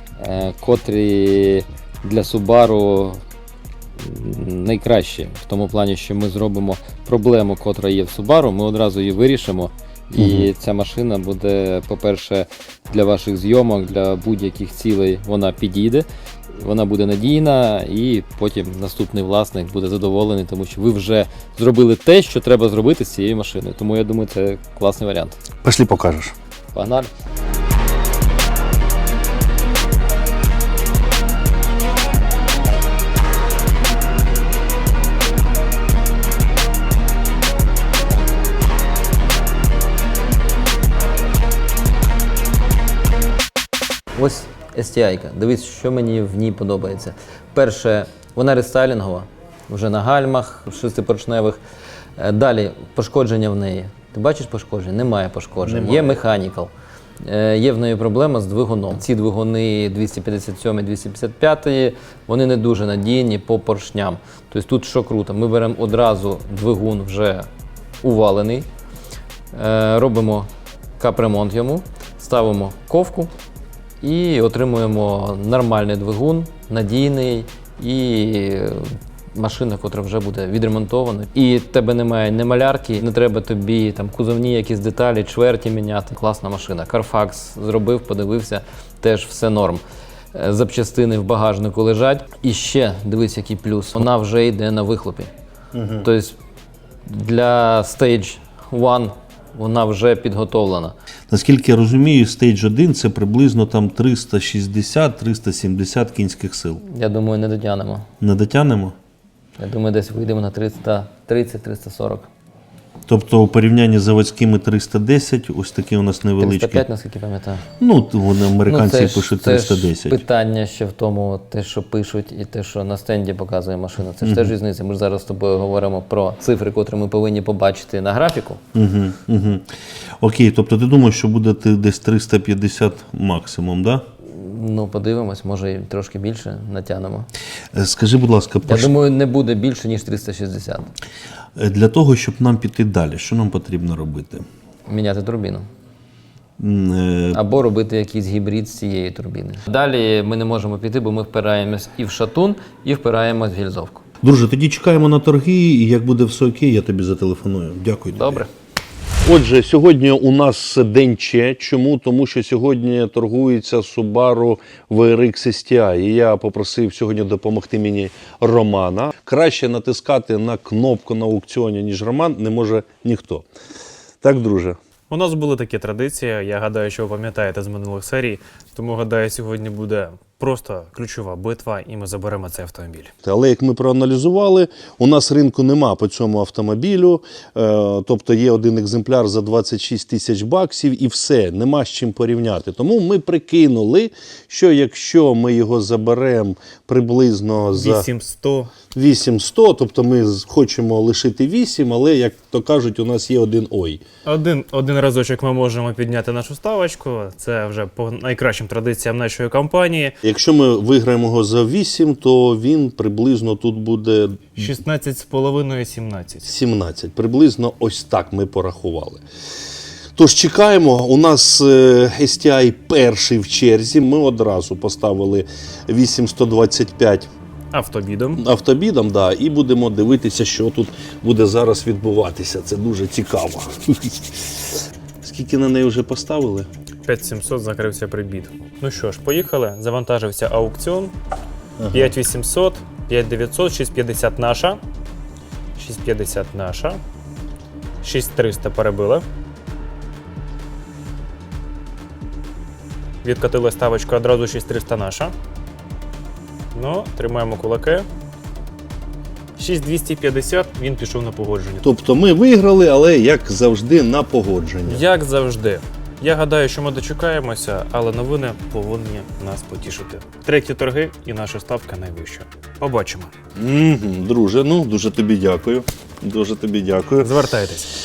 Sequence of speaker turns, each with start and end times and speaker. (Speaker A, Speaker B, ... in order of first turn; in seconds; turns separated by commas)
Speaker A: 0.2-3.2, Speaker A: 4.0-16.1, Speaker B: 10.2-10.5, Speaker A: 16.6-25.4, Speaker B: 25.6-26.3, Speaker A: 26.7-27.1, Speaker A: 44.1-51.6, Speaker A: 52.2-56.7, Speaker B: 55.6-56.2, Speaker A: 57.2-67.5, Speaker A: 68.0-68.7, Speaker A: 69.5-73.3, Speaker A: 74.0-89.8, Speaker A: 90.3-95.3, Speaker B: 95.7-96.1, Speaker A: 96.0-96.4, Speaker A: 97.1-101.0, Speaker B: 101.3-106.8, Speaker A: 106.8-108.1, Speaker B: 108.2-109.0, Speaker A: 109.6-112.3, Speaker B: 113.1-116.9, Speaker A: 116.4-117.7, Speaker B: 117.8-120.2, Speaker A: 118.7-128.6, Speaker B: 124.2-124.5, Speaker B: 128.8-129.7, Speaker B: 130.2-134.1, Speaker A: 134.2-137.3, Speaker B: 137.7-138.9, Speaker A: 138.7-140.9, Speaker B: 141.6-144.5, Speaker A: 144.9-145.7, Speaker B: 146.6-147.4, Speaker A: 147.3-154.0, Speaker B: 154.2-158.5, Speaker A: 158.1-158.5, Speaker B: 159.2-173.5, Speaker B: 174.2-174.8, Speaker C: 175.1-183.1, Speaker B: 183.2-198.1, Speaker C: 197.7-198.7, Speaker B: 198.9-204.0, Speaker C: 204.2-210.2, Speaker B: 210.2-214.7, Speaker C: 214.6-216.5, Speaker B: 216.4-219.2, Speaker B: 220.2-227.3, Speaker C: 227.7-228.4, Speaker B: 228.4-234.6, Speaker B: 235.2-236.7, Speaker C: 237.1-241.1, Speaker B: 241.8-242.2, Speaker C: 241.9-244.8, Speaker C: 245.8-247.0, Speaker C: 248.0-249.2, Speaker C: 253.2-255.3, Speaker C: 256.8-258.1, Speaker C: 259.6-261.9, Speaker B: 261.8-265.1, Speaker C: 264.9-273.3, Speaker B: 273.6-277.3, Speaker C: 277.2-277.9